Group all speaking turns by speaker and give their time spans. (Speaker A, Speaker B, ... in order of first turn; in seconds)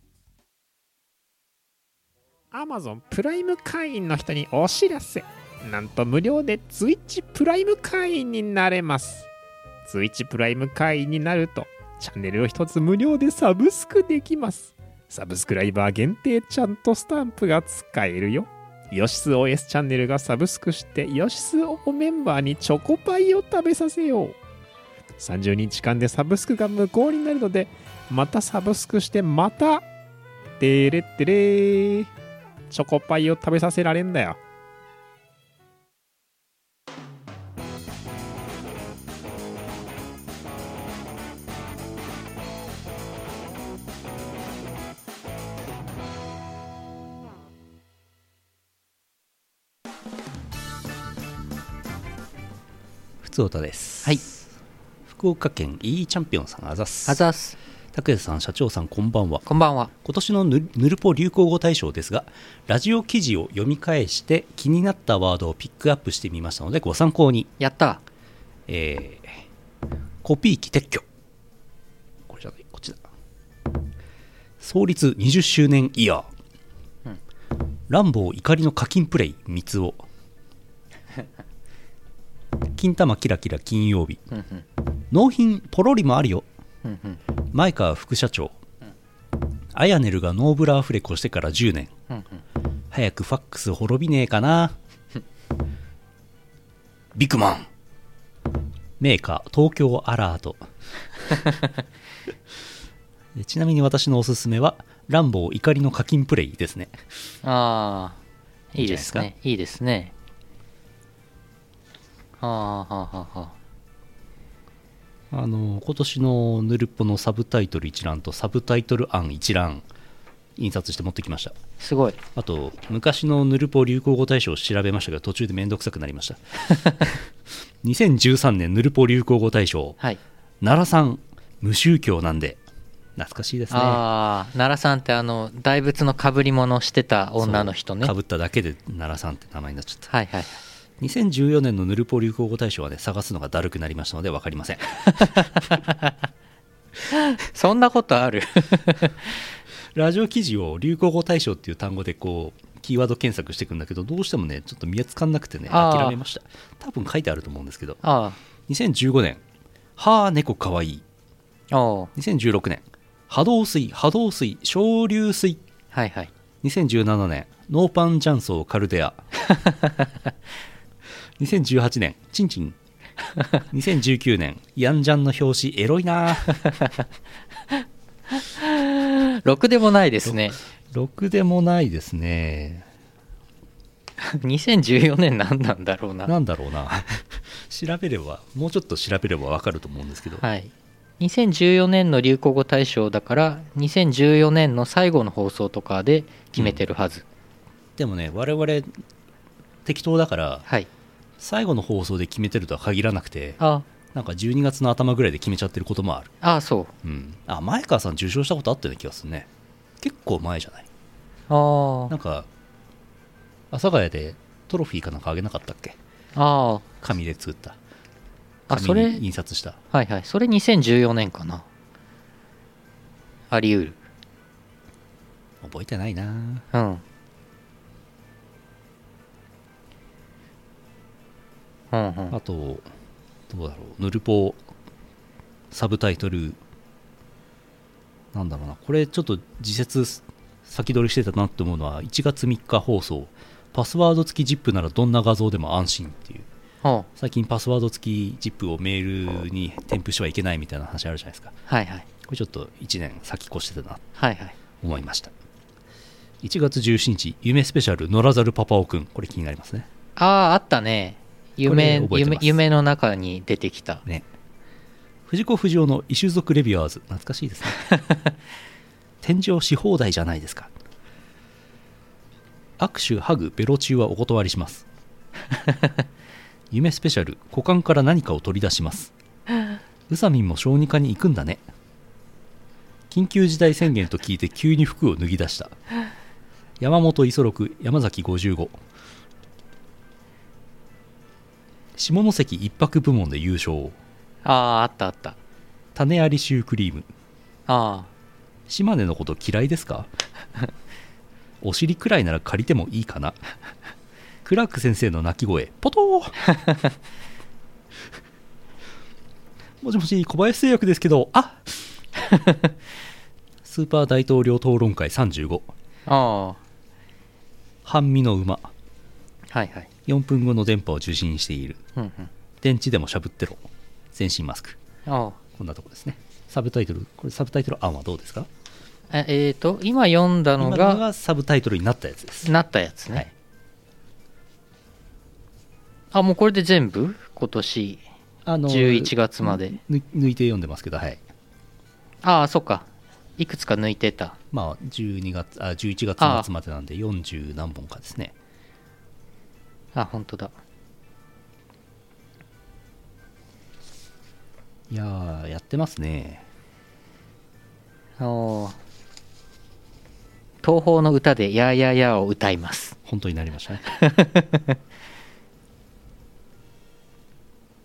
Speaker A: 2.5-9.3, 9.8-24.4, 25.2-29.9, 30.6-32.1, 32.7-34.4
Speaker B: 53.2-54.4, 55.1-57.2, 57.9-59.5, 60.0-67.5, 68.7-69.4, 70.2-71.0, 72.3-73.0, 74.6-76.3, 77.9-80.1, 82.8-84.2, 85.1-86.5, 87.5-88.6, 89.7-91.9, 92.9-94.8, 97.2-97.7, 99.0-100.7, 103.3-107.0, 108.8-109.3, 115.3-119.8, 120.6-121.5, 122.3-127.3, 127.8-130.0, 130.6-132.6, 133.2-134.0, 137.4-140.1, 141.0-145.3, 149.9-158.0, 158.7-159.4, 160.0-161.1, 162.2-165.6, 166.6-169.2, 171.4-172.8, 173.7-176.6, 180.2-182.9, 186.3-190.4, 198.0-198.9, 199.8-200.7, 201.4-203.6, 204.1-206.3, 207.0-209.5, 210.0-210.9, 212.1-212.5, 213.7-216.0, 217.0-217.8, 218.7-219.8, 225.6-226.7, 232.3-232.9, 233.5-234.6, 235.7-236.6, 238.3-246.5, 247.2-251.6, 252.2-254.0, 254.8-255.3, 256.4-259.9, 261.6-262.6, 265.3-267.8, 269.2-270.7, 272.8-274.9, 276.7-279.1, 280.1-281.6, 283.1-285.8, 286.8-288.8, 292.0-294.0, 295.9-297.1, 298.7-300.1, 301.6-303.4, 304.4-306.4, 309.8-311.9, 313.6-315.7, 317.8-318.7, 320.1-321.8, 322.6-324.8, 325.6-328.5, 330.6-332.5, 338.5-341.2, 344.5-348.3, 354.9-356.4, 363.1-363.9
Speaker C: 57.0-57.6, 59.5-59.9, 67.6-68.0, 84.3-84.6, 86.8-87.2, 92.1-92.4, 107.4-108.2, 108.7-110.1, 112.4-113.5, 121.8-122.2, 133.7-138.1, 140.1-140.6, 145.1-146.1, 147.1-149.4, 155.7-156.2, 158.0-158.4, 161.7-162.1, 165.9-166.3, 169.5-170.1, 176.6-176.9, 178.3-180.6, 184.2-186.3, 190.4-197.2, 203.6-203.8, 206.4-206.9, 211.5-212.1, 216.3-216.9, 218.7-219.2, 219.9-221.7, 223.5-224.0, 226.7-227.0, 231.9-232.4, 246.8-247.1, 251.7-252.1, 254.2-254.6, 260.2-264.0, 267.9-268.2, 294.4-295.4, 297.7-298.1, 312.2-312.6, 316.1-316.6, 319.5-319.9, 322.0-322.3, 325.1-325.4, 329.1-331.0, 332.4-333.2, 336.1-338.0, 338.7-339.8, 342.2-342.9, 343.4-344.4, 346.2-346.5, 349.9-350.5, 358.2-358.8, 360.6-363.0, 363.9-364.8